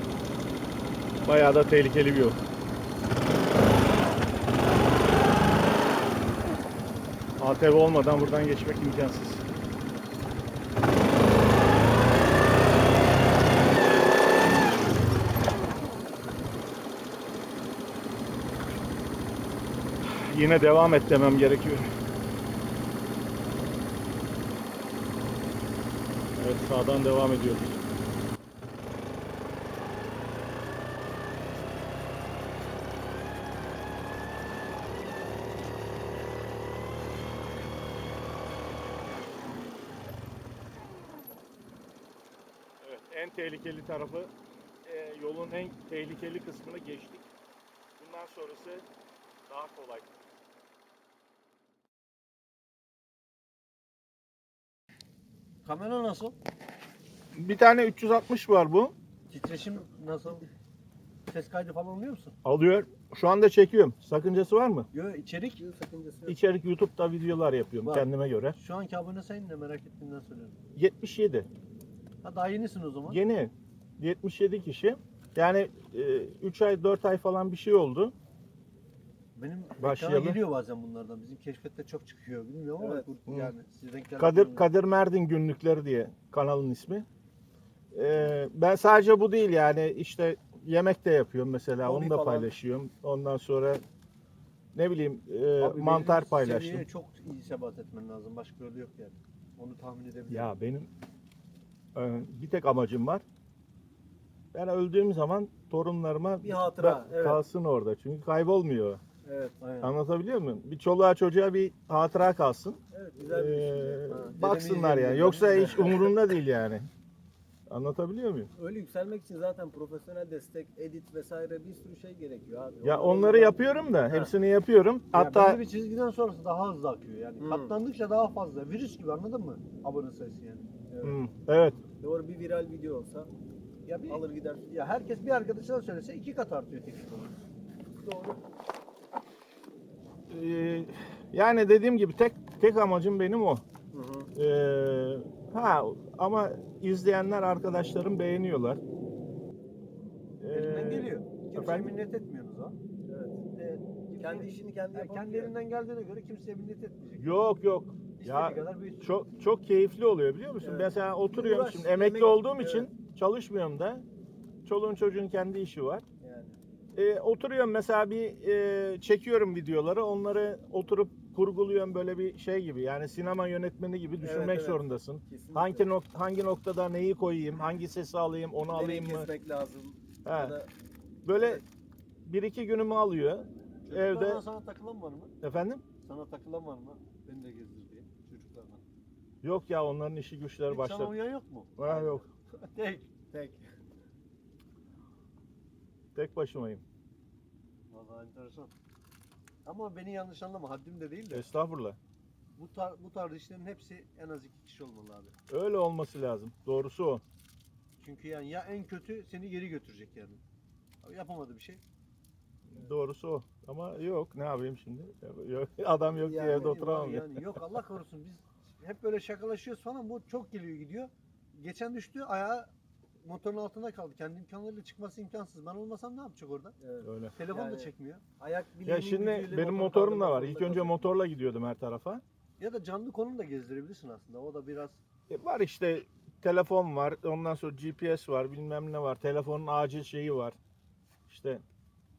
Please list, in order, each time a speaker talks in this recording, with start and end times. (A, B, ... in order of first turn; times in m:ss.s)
0:01.2-0:02.4 A
0:07.4-0:09.4 A
0:20.0-0:21.9 A
0:26.4-0:27.8 A
0:42.8-0:44.3 A
0:44.8-0:47.3 A
0:48.0-0:48.8 A
0:49.5-0:50.1 A
0:55.6-0:56.4 B
0:57.3-0:58.9 A
0:59.3-1:00.5 B
1:01.3-1:02.4 B
1:02.4-1:04.9 A
1:04.9-1:06.4 C
1:06.3-1:08.6 A
1:07.8-1:10.6 B
1:10.8-1:11.5 A
1:12.2-1:13.2 B
1:13.1-1:18.1 A
1:19.4-1:24.7 B
1:19.8-1:20.4 A
1:22.8-1:23.1 C
1:23.3-1:23.5 A
1:24.2-1:27.1 A
1:27.9-1:33.8 A
1:31.8-1:32.5 C
1:34.7-1:36.9 A
1:35.6-1:40.5 B
1:40.3-1:40.9 A
1:42.0-1:43.2 A
1:44.5-1:49.0 A
1:46.4-1:47.4 C
1:49.2-1:49.6 C
1:49.6-1:49.9 B
1:49.8-1:56.9 A
1:52.9-1:54.4 C
1:54.4-1:56.1 B
1:55.4-1:56.1 C
1:57.7-1:58.5 A
1:58.6-2:04.2 C
2:02.8-2:05.6 A
2:05.1-2:10.7 B
2:07.4-2:07.7 C
2:10.9-2:11.2 C
2:11.0-2:11.8 A
2:12.0-2:13.3 C
2:13.8-2:14.7 C
2:14.1-2:17.4 B
2:18.0-2:18.4 C
2:20.3-2:23.6 A
2:23.9-2:24.3 C
2:24.4-2:28.8 A
2:30.4-2:31.9 A
2:30.5-2:32.8 B
2:33.1-2:35.5 C
2:33.6-2:37.4 B
2:37.2-2:44.0 A
2:38.2-2:39.0 B
2:40.6-2:42.9 C
2:44.6-2:46.0 A
2:46.2-2:46.6 C
2:47.0-2:59.3 A
2:54.2-2:55.9 C
2:58.7-3:00.7 C
3:00.2-3:00.6 A
3:01.2-3:01.6 A
3:01.4-3:01.6 C
3:02.2-3:04.4 A
3:03.9-3:05.3 B
3:05.4-3:05.8 A
3:06.0-3:08.8 B
3:09.4-3:11.1 A
3:10.7-3:13.3 B
3:11.8-3:12.2 A
3:13.3-3:13.6 C
3:16.2-3:16.8 A
3:17.9-3:18.7 B
3:19.6-3:21.5 B
3:21.3-3:22.0 A
3:22.6-3:25.3 B
3:25.5-3:27.2 A
3:28.0-3:30.4 B
3:31.0-3:31.8 B
3:32.7-3:37.5 A
3:36.2-3:36.9 C
3:36.4-3:46.8 B
3:46.8-3:51.1 C
3:47.0-3:47.3 A
3:47.3-3:48.2 B
3:48.8-3:52.2 A
3:52.6-3:55.0 B
3:55.3-4:00.6 A
4:01.3-4:01.6 A